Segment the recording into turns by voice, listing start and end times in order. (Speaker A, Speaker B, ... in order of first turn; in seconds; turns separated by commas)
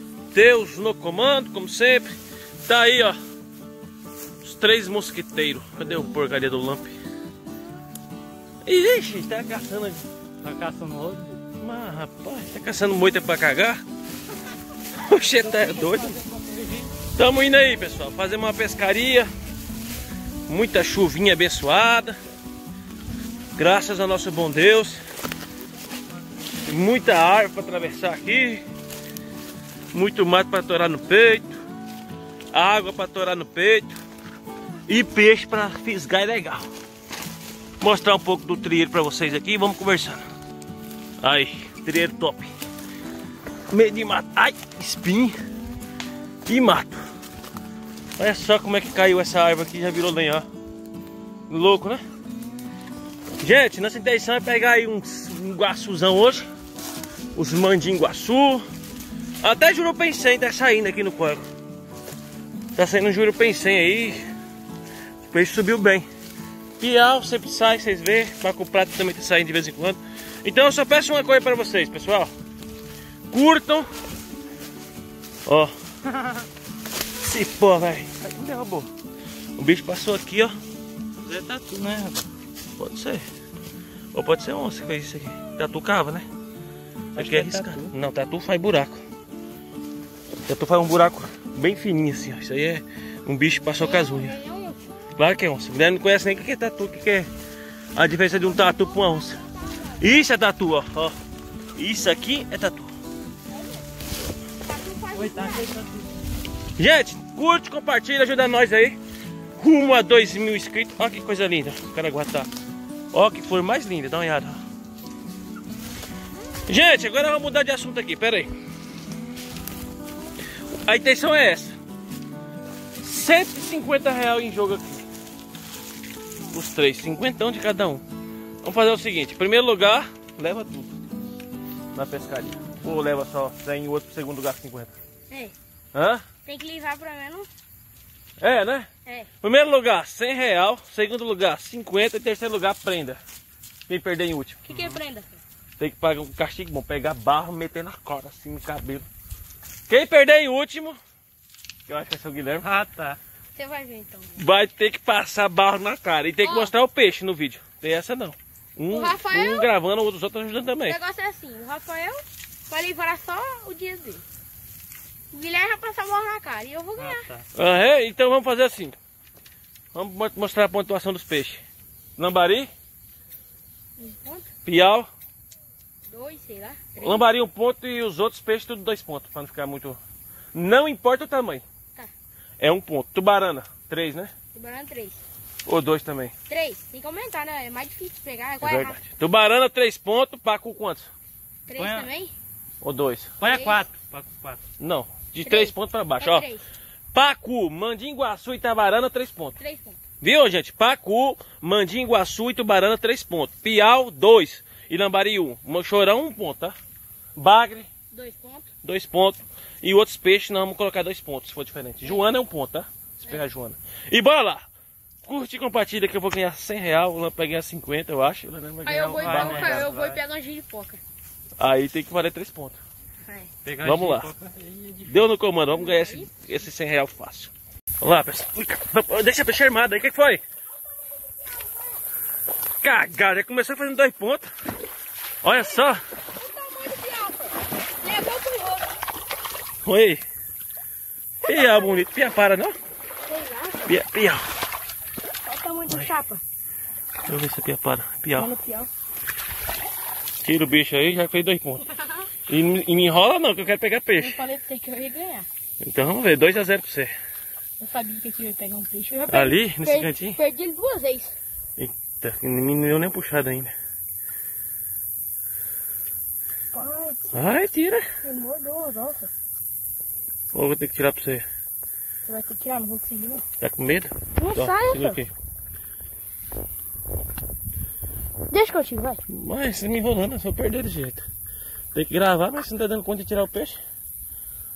Speaker A: 0.3-2.1, Speaker A: 2.7-3.2, Speaker A: 4.4-7.0, Speaker A: 8.7-10.0, Speaker B: 10.4-11.4, Speaker A: 11.6-13.8, Speaker A: 15.0-16.2, Speaker B: 15.4-16.9, Speaker A: 17.2-19.3, Speaker A: 20.5-22.2, Speaker A: 23.6-25.0, Speaker A: 26.7-28.6, Speaker A: 29.9-31.6, Speaker A: 32.5-34.0, Speaker A: 34.9-36.7, Speaker A: 37.8-40.2, Speaker A: 41.2-42.5, Speaker A: 43.7-45.4, Speaker A: 46.5-47.0, Speaker A: 48.2-50.5, Speaker A: 51.5-52.0, Speaker A: 53.4-56.5, Speaker A: 57.4-58.6, Speaker A: 59.4-61.5, Speaker A: 62.8-64.2, Speaker A: 65.2-66.1, Speaker A: 66.8-72.3, Speaker A: 73.3-73.9, Speaker A: 75.5-75.7, Speaker B: 76.0-76.5, Speaker A: 77.2-78.9, Speaker A: 79.6-80.6, Speaker B: 81.2-82.3, Speaker A: 82.8-83.3, Speaker A: 84.1-86.3, Speaker B: 87.2-87.9, Speaker A: 87.2-89.0, Speaker A: 90.5-94.4, Speaker C: 93.8-95.0, Speaker A: 95.2-97.3, Speaker A: 98.0-99.4, Speaker C: 99.3-100.0, Speaker A: 99.9-101.2, Speaker A: 101.8-102.9, Speaker C: 103.5-103.8, Speaker C: 104.6-105.7, Speaker B: 105.1-106.2, Speaker A: 106.8-109.0, Speaker A: 109.6-112.5, Speaker A: 113.1-114.6, Speaker A: 116.7-118.5, Speaker A: 120.8-121.8, Speaker A: 123.0-125.0, Speaker A: 126.5-128.0, Speaker A: 128.6-130.9, Speaker A: 131.9-134.9, Speaker A: 135.9-136.2, Speaker C: 136.5-137.5, Speaker A: 138.4-138.9, Speaker A: 139.4-143.2, Speaker A: 143.9-144.6, Speaker C: 144.7-145.4, Speaker B: 144.7-145.0, Speaker A: 145.8-149.1, Speaker A: 149.9-151.0, Speaker A: 151.9-152.7, Speaker B: 152.6-153.2, Speaker C: 153.6-154.4, Speaker A: 154.4-161.0, Speaker C: 156.4-156.7, Speaker C: 158.9-159.7, Speaker C: 160.8-164.2, Speaker C: 165.3-167.3, Speaker B: 167.0-167.5, Speaker A: 167.5-169.0, Speaker A: 169.9-171.6, Speaker A: 172.2-172.7, Speaker C: 174.0-174.5, Speaker A: 174.7-175.1, Speaker C: 176.1-177.3, Speaker A: 177.0-180.0, Speaker A: 180.5-181.6, Speaker A: 182.6-184.3, Speaker C: 184.5-185.2, Speaker A: 185.7-186.3, Speaker C: 186.5-189.0, Speaker A: 188.6-191.1, Speaker C: 191.7-192.3, Speaker B: 191.8-192.1, Speaker A: 192.8-193.3, Speaker B: 193.4-194.6, Speaker C: 193.4-193.8, Speaker A: 194.8-196.5, Speaker C: 195.4-196.7, Speaker A: 197.1-199.6, Speaker C: 199.6-200.0, Speaker A: 200.2-206.8, Speaker A: 207.4-207.9, Speaker C: 208.1-208.7, Speaker A: 208.8-214.7, Speaker A: 215.2-219.9, Speaker C: 218.8-221.0, Speaker B: 219.2-220.2, Speaker A: 221.6-222.8, Speaker B: 223.6-225.1, Speaker A: 223.8-224.3, Speaker A: 225.1-230.4, Speaker C: 225.7-226.3, Speaker C: 230.7-232.0, Speaker A: 232.8-234.5, Speaker A: 235.4-236.0, Speaker C: 235.6-239.0, Speaker A: 239.8-240.2, Speaker A: 241.4-242.7, Speaker C: 241.4-242.1, Speaker C: 243.2-243.9, Speaker A: 243.9-244.4, Speaker C: 245.4-246.4, Speaker A: 247.3-248.5, Speaker C: 248.4-248.9, Speaker A: 250.4-251.9, Speaker C: 252.0-252.3, Speaker A: 252.5-254.4, Speaker C: 254.2-255.5, Speaker A: 255.8-257.1, Speaker C: 257.8-261.4, Speaker A: 259.3-260.4, Speaker A: 261.8-263.7, Speaker C: 266.7-267.3, Speaker A: 267.3-268.1, Speaker C: 268.2-269.3, Speaker A: 270.5-271.4, Speaker C: 272.3-273.4, Speaker A: 273.6-275.3, Speaker C: 274.4-275.2, Speaker C: 278.5-279.2, Speaker A: 279.3-281.2, Speaker A: 281.9-283.8